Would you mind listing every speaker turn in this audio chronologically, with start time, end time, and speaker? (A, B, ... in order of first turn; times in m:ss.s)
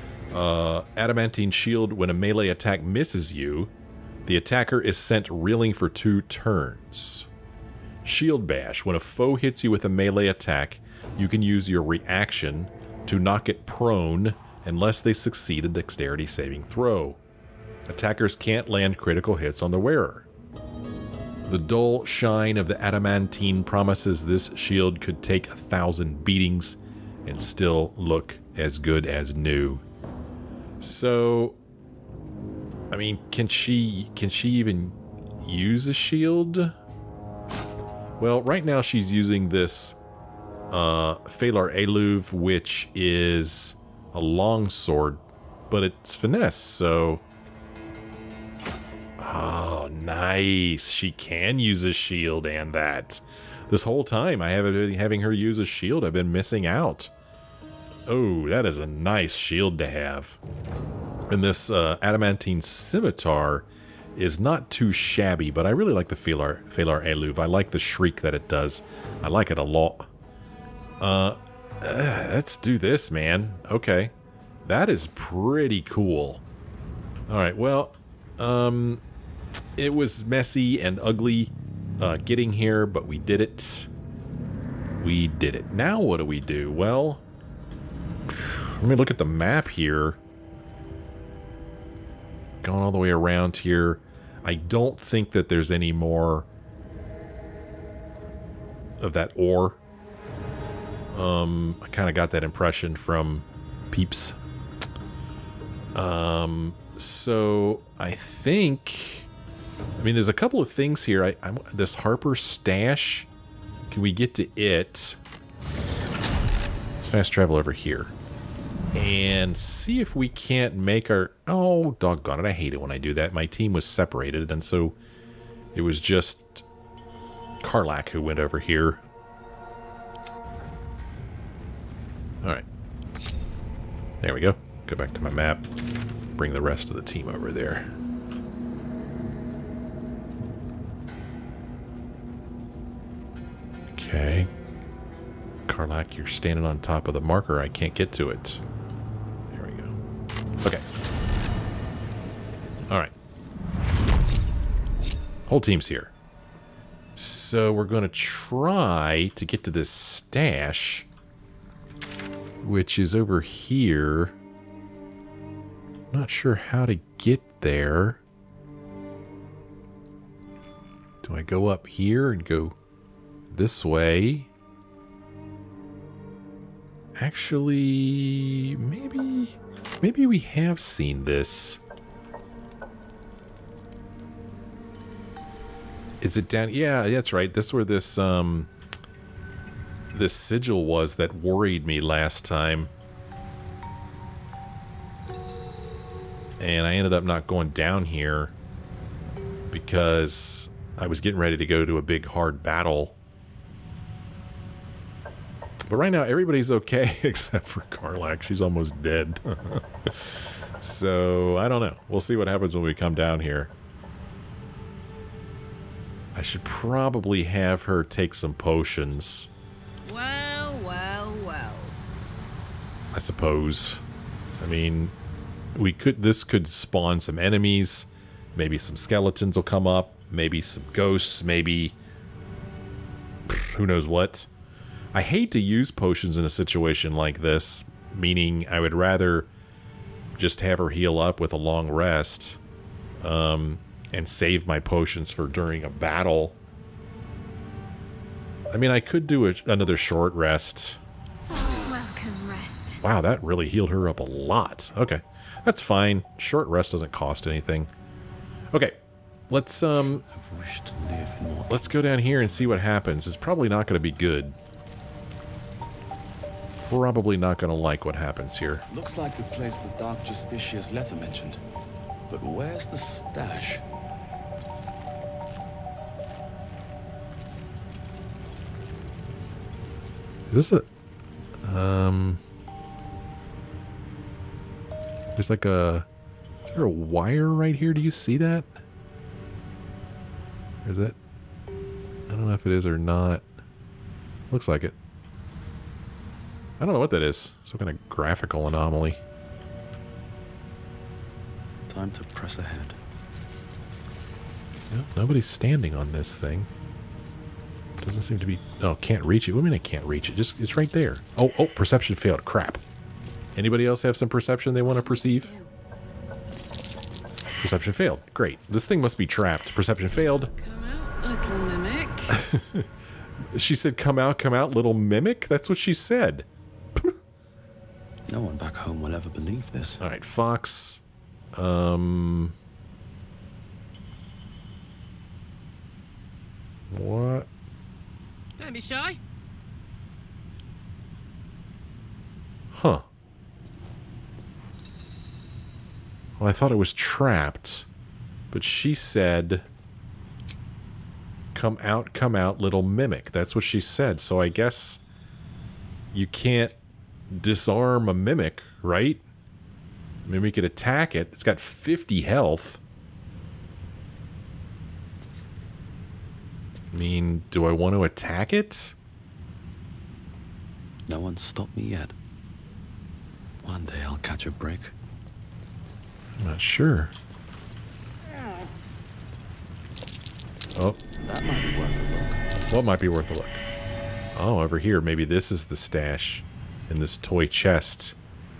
0:00.3-0:03.7 A
0:04.2-0:07.3 A
0:08.0-0:17.2 A
0:17.9-0:20.3 A
0:21.5-0:29.8 A
0:30.8-0:31.6 A
0:32.9-0:36.7 A
0:38.2-0:40.0 A
0:40.7-0:47.2 A
0:49.2-0:57.1 A
0:58.1-1:00.4 A
1:01.3-1:10.1 A
1:11.0-1:14.1 A
1:14.6-1:16.4 A
1:17.3-1:19.0 A
1:19.8-1:23.9 A
1:25.0-1:27.2 A
1:28.3-1:30.2 A
1:32.6-1:36.5 A
1:39.0-1:39.8 A
1:41.1-1:44.4 A
1:45.9-1:49.3 A
1:50.0-1:53.3 A
1:53.9-1:55.2 A
1:57.0-1:58.1 A
1:58.9-2:05.0 A
2:05.7-2:06.6 A
2:07.6-2:09.0 A
2:14.2-2:15.7 A
2:16.4-2:17.9 A
2:23.9-2:24.5 A
2:25.7-2:28.6 A
2:29.5-2:29.9 A
2:35.5-2:36.1 A
2:37.2-2:41.1 A
2:42.6-2:44.3 A
2:46.1-2:48.2 A
2:51.2-2:52.8 A
2:53.5-2:54.5 A
2:57.2-3:01.8 A
3:06.2-3:08.7 A
3:10.1-3:12.9 A
3:16.6-3:18.5 A
3:19.7-3:23.2 A
3:25.9-3:33.7 A
3:36.3-3:39.5 A
3:40.0-3:42.0 B
3:43.1-3:44.0 A
3:44.6-3:45.1 A
3:45.7-3:52.0 A
3:53.5-3:54.5 A
3:55.1-3:59.5 A
4:00.4-4:02.6 A
4:03.2-4:06.6 A
4:08.7-4:11.0 A
4:11.5-4:13.0 C
4:13.0-4:17.9 A
4:18.7-4:19.0 A
4:19.5-4:20.2 A
4:20.2-4:22.4 D
4:21.7-4:24.5 A
4:26.9-4:28.8 A
4:28.9-4:31.6 D
4:32.3-4:33.8 D
4:40.5-4:40.8 A
4:41.6-4:42.4 A
4:45.3-4:46.0 A
4:46.7-4:48.7 A
4:50.8-4:51.2 A
4:52.3-4:53.4 A
4:54.5-4:55.0 A
4:56.8-4:59.2 A
5:01.9-5:03.0 D
5:04.9-5:06.7 A
5:08.0-5:12.8 A
5:13.6-5:15.5 A
5:14.9-5:15.7 C
5:17.6-5:20.5 A
5:20.5-5:22.4 B
5:22.3-5:22.9 A
5:23.5-5:27.2 A
5:28.3-5:30.0 D
5:30.0-5:31.0 A
5:31.5-5:32.5 A
5:36.9-5:37.5 A
5:38.6-5:39.2 B
5:42.7-5:43.0 A
5:46.4-5:47.9 A
5:48.5-5:49.6 A
5:51.5-5:55.0 A
5:56.1-5:56.7 A
5:57.3-5:59.2 A
6:00.2-6:02.8 A
6:06.9-6:08.9 A
6:11.1-6:12.1 D
6:13.6-6:14.9 D
6:16.4-6:17.1 A
6:21.2-6:22.4 D
6:22.7-6:23.6 A
6:24.3-6:28.2 A